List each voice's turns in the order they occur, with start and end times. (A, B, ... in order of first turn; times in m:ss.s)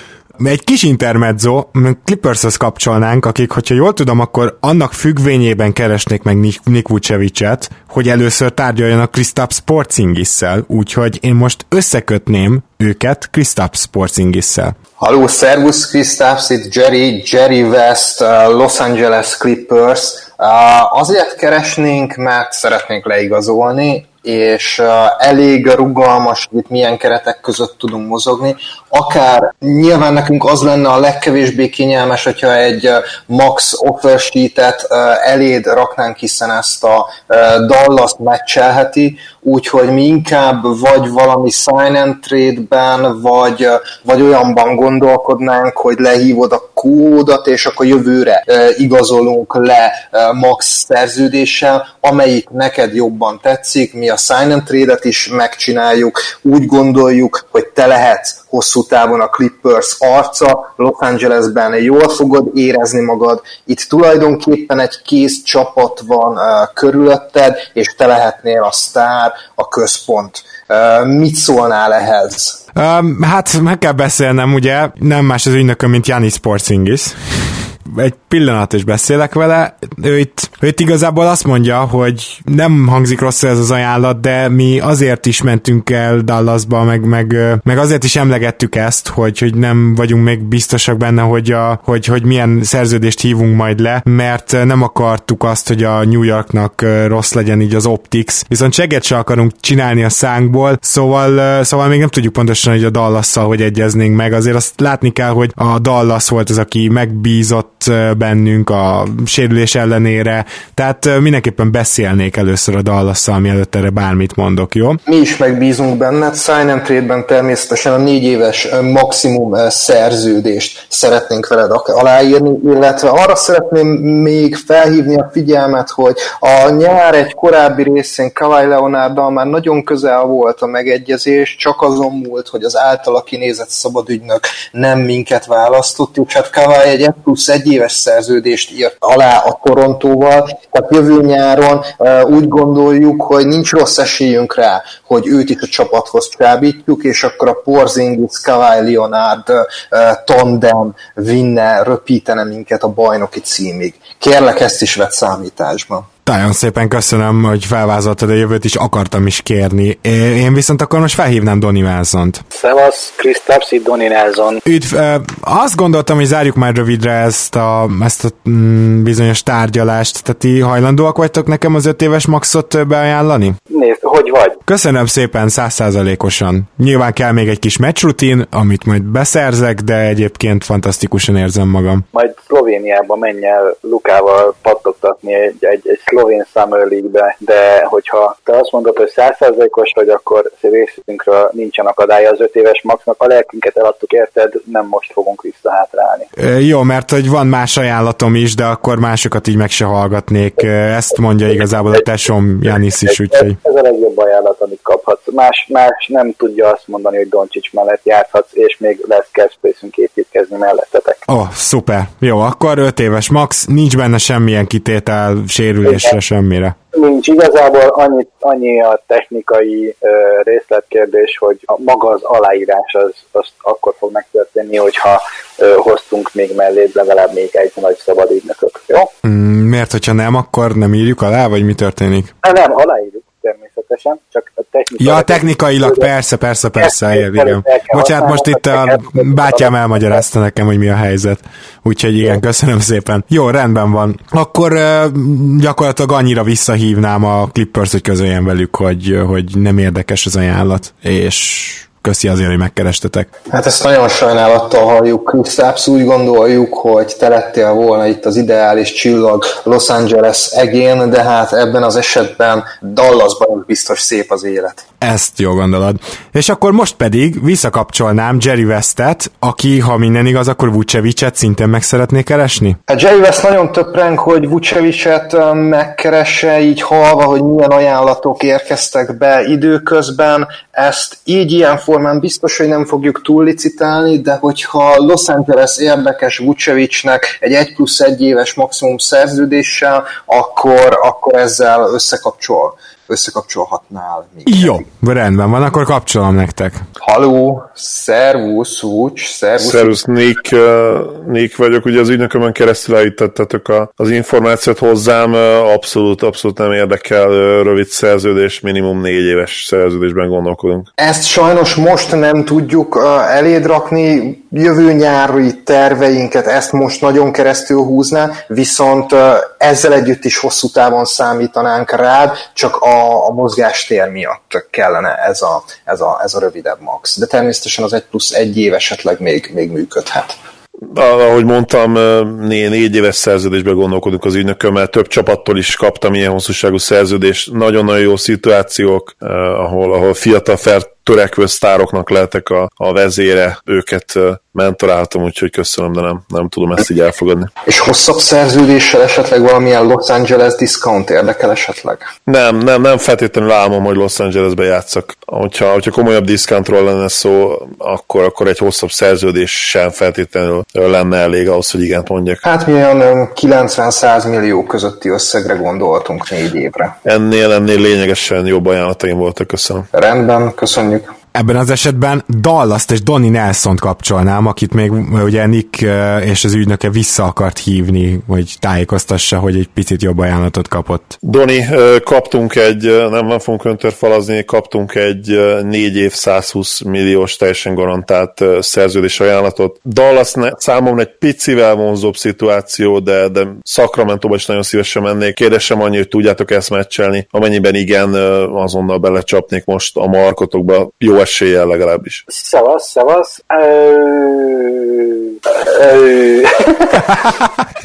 0:00.4-0:14.8 A
0:15.0-1:12.6 B
1:12.8-1:55.0 A
1:55.1-2:36.1 B
2:36.3-2:42.4 A
2:42.5-2:44.6 C
2:44.6-2:53.6 A
2:53.7-2:54.6 C
2:54.7-3:02.0 A
3:02.1-3:16.3 C
3:16.4-3:23.6 A
3:23.0-3:31.2 C
3:31.3-3:36.8 A
3:35.9-3:36.1 C
3:36.9-3:49.1 C
3:49.2-3:52.3 A
3:52.4-3:56.1 C
3:55.0-4:13.3 A
3:56.8-4:00.2 C
4:13.5-4:24.8 B
4:25.0-4:32.8 A
4:32.9-4:54.8 B
4:54.5-4:56.8 A
4:57.0-5:00.0 B
4:59.6-5:10.9 D
5:11.0-5:30.4 B
5:30.9-5:47.5 D
5:47.7-5:52.1 B
5:52.3-6:02.4 D
6:02.4-6:07.0 B
6:07.0-6:09.9 D
6:09.9-6:11.1 B
6:11.3-6:21.2 A
6:21.2-6:42.2 D
6:42.3-6:47.2 C